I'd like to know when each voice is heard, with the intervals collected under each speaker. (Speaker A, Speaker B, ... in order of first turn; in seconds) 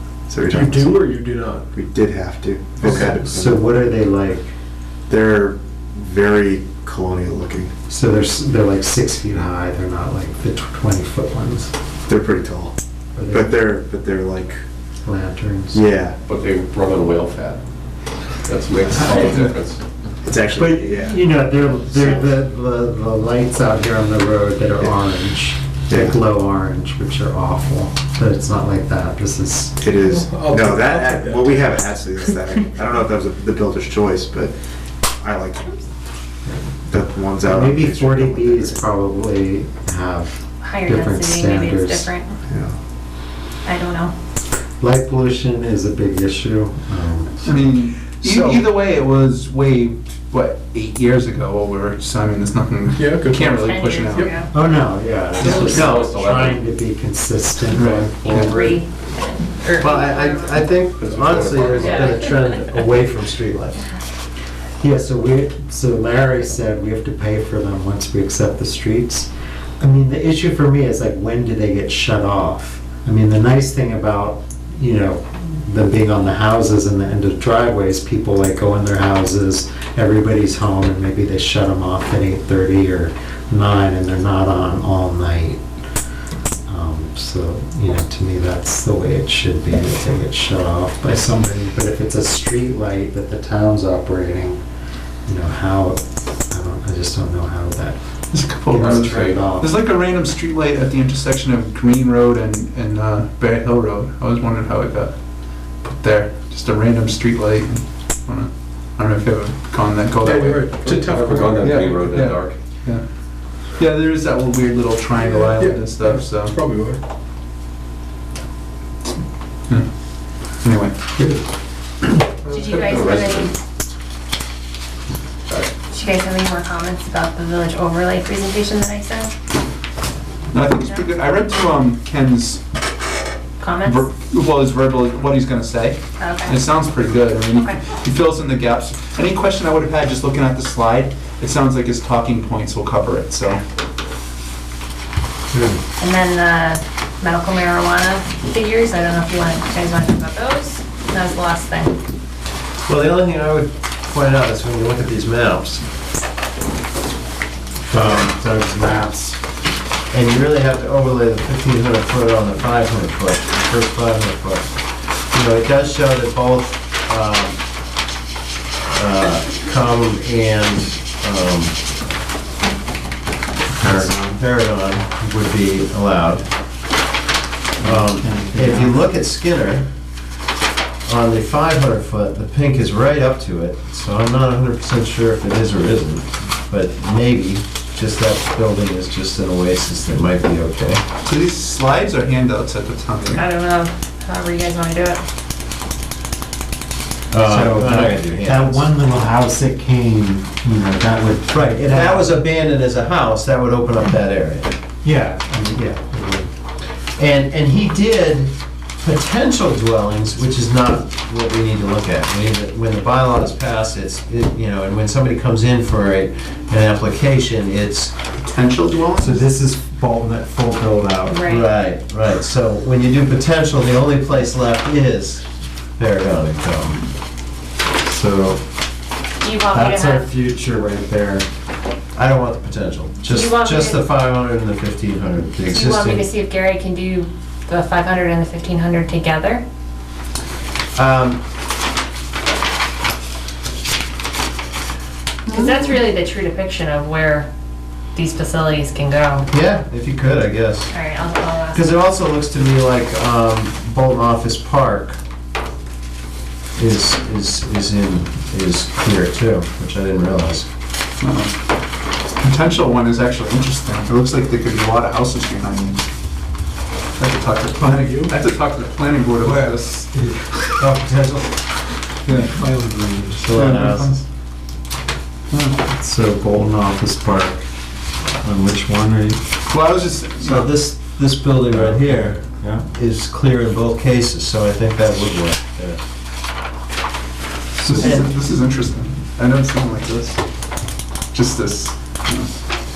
Speaker A: 0.3-1.1, 1.7-3.6, 5.1-7.7, 12.1-12.7, 13.3-14.6, 15.7-16.1, 20.2-21.2, 25.9-26.2, 29.8-34.5, 35.2-35.7, 36.9-38.8, 42.5-42.8
Speaker B: 0.5-1.7, 30.0-31.8, 52.9-54.4, 110.2-111.8, 115.2-117.0, 267.8-268.3, 269.4-270.4, 272.3-273.6
Speaker C: 2.8-4.5, 7.9-11.7, 13.2-13.5, 15.0-15.8, 20.5-29.8, 36.5-36.7, 37.4-42.1, 44.8-47.6, 54.5-58.8, 64.8-69.3, 69.8-85.6, 86.7-94.6, 95.3-98.0, 98.6-99.7, 157.9-159.4, 177.8-178.9, 197.3-202.3, 205.0-206.5, 219.2-221.4, 228.1-228.6, 229.7-231.5, 270.8-271.4, 273.4-274.2, 275.9-277.6, 278.4-279.4, 281.7-282.0
Speaker D: 16.3-17.6, 18.4-19.8, 55.4-56.6, 60.9-62.5, 99.0-99.4, 110.8-112.6, 122.5-123.5, 125.5-125.7
Speaker E: 40.6-42.3, 43.6-44.1, 53.6-54.5, 58.2-60.5, 61.8-62.2, 122.4-123.5, 125.9-129.3, 133.6-134.1, 136.2-136.6, 137.6-137.8, 146.0-152.0, 193.3-195.2, 221.2-221.7, 229.4-230.3, 233.2-234.1, 235.6-239.6, 245.5-247.5, 248.1-249.5, 250.9-251.9
Speaker F: 47.4-54.3, 57.7-58.6, 98.3-105.1, 105.8-110.8, 111.6-113.0, 113.8-116.5, 120.6-121.0, 130.5-132.6, 133.8-143.6, 191.2-193.4, 218.4-219.4, 261.2-261.6, 262.4-266.0, 267.1-270.1, 272.2-272.5, 273.5-274.2, 275.5-275.8, 279.7-280.8, 287.8-290.4, 291.3-292.6
Speaker G: 59.7-63.8, 152.8-155.8, 157.9-158.2, 160.1-164.7, 165.3-167.6, 168.8-171.7, 173.8-176.4, 177.8-179.9, 181.1-191.0, 197.3-198.9, 201.5-204.7, 207.2-218.1, 221.4-225.4, 226.0-227.0, 232.1-236.2, 240.9-241.4, 249.5-250.9, 251.7-255.2, 256.8-260.7, 280.4-286.0, 287.9-288.3